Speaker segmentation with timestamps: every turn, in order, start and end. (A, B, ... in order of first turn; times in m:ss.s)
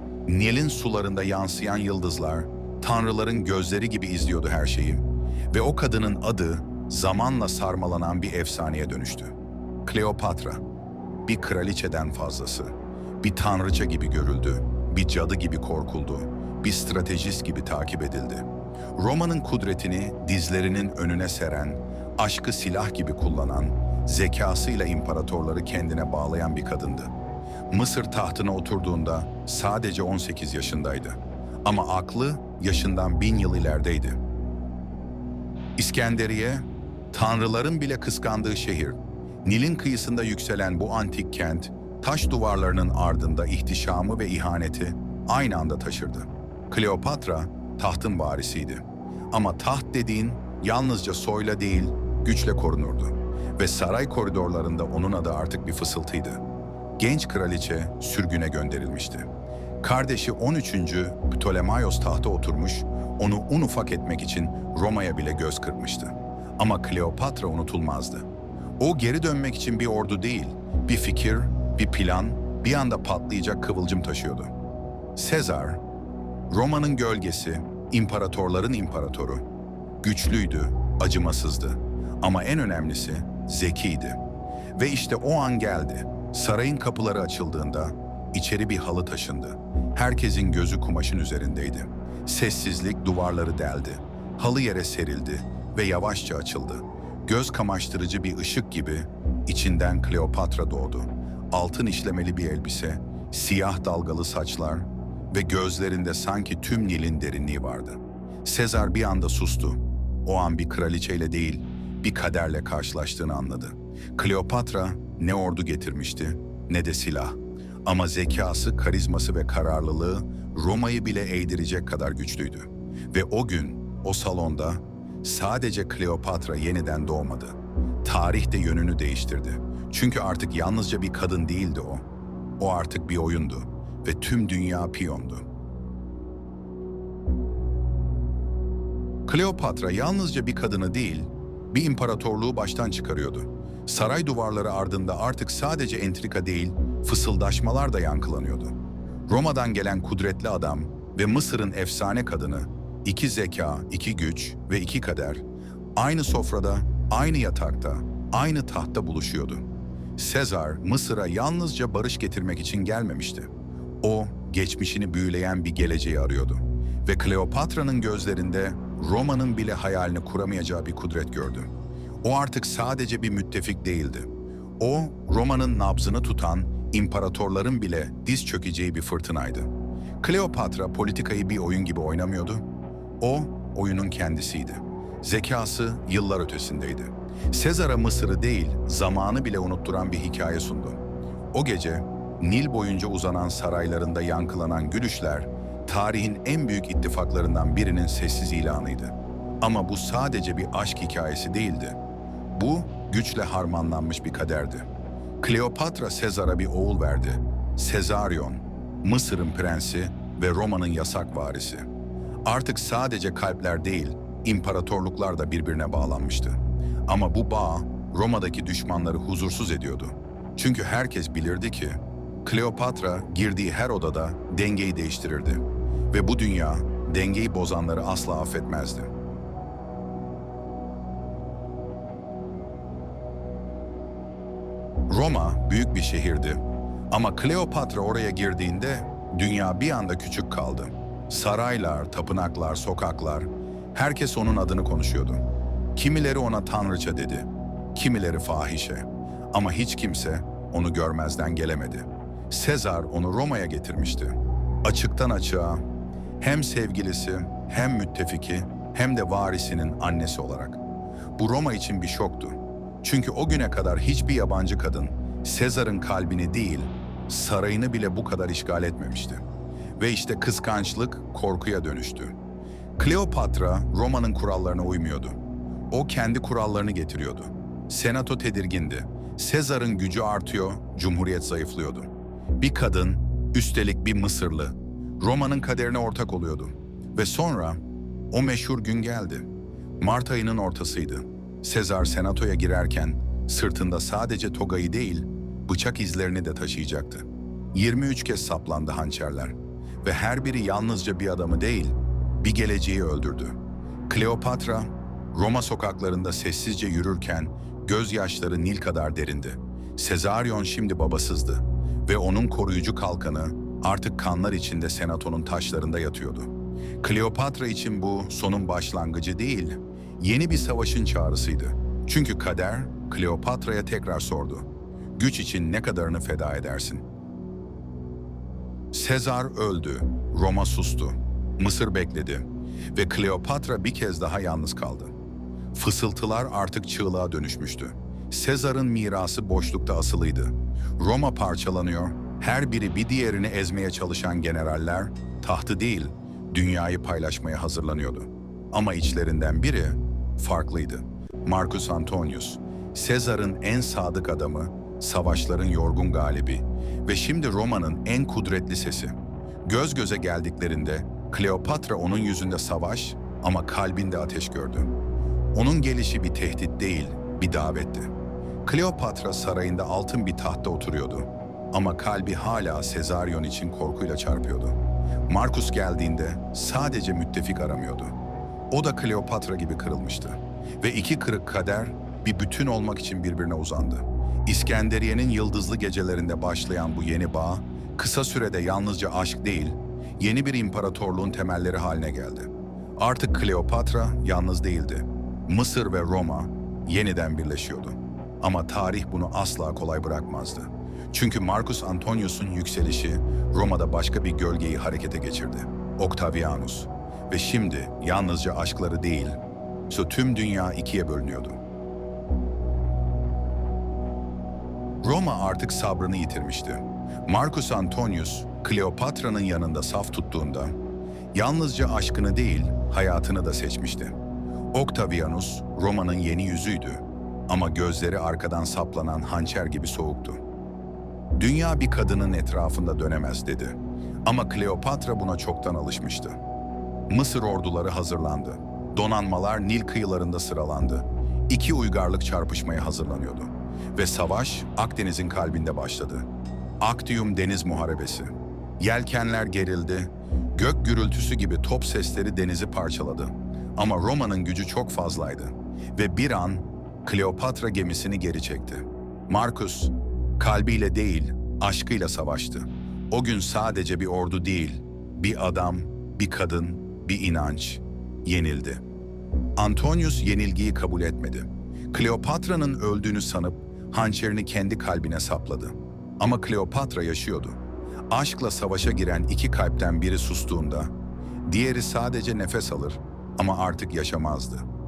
0:00.3-0:09.3 A
0:09.8-0:10.6 A
0:11.3-0:27.1 A
0:27.7-0:34.2 A
0:35.8-0:56.4 A
0:57.0-0:59.3 A
0:59.8-1:08.3 A
1:08.8-1:14.5 A
1:15.2-1:15.8 A
1:16.5-1:19.4 A
1:20.0-1:24.2 A
1:24.8-2:12.0 A
2:12.6-2:15.4 A
2:19.3-2:28.8 A
2:29.3-2:35.4 A
2:36.0-2:39.7 A
2:40.2-2:43.5 A
2:44.0-2:51.7 A
2:52.2-2:59.7 A
3:00.2-3:02.6 A
3:03.2-3:11.0 A
3:11.5-3:22.0 A
3:22.5-3:24.9 A
3:25.4-3:31.9 A
3:32.5-3:49.1 A
3:55.1-4:05.4 A
4:06.0-4:15.8 A
4:16.4-4:20.8 A
4:21.4-4:29.4 A
4:30.0-4:32.4 A
4:33.0-4:35.4 A
4:35.9-4:42.1 A
4:42.6-4:49.5 A
4:50.0-5:03.6 A
5:04.1-5:16.5 A
5:17.0-5:27.0 A
5:28.9-5:35.1 A
5:35.7-6:04.9 A
6:05.5-6:08.1 A
6:08.6-6:18.2 A
6:18.7-6:49.4 A
6:49.9-6:51.6 A
6:55.0-7:00.8 A
7:01.3-7:04.2 A
7:04.7-7:10.4 A
7:11.4-7:16.4 A
7:17.1-7:26.3 A
7:26.8-7:48.8 A
7:49.6-7:57.6 A
7:58.1-8:00.9 A
8:01.5-8:04.7 A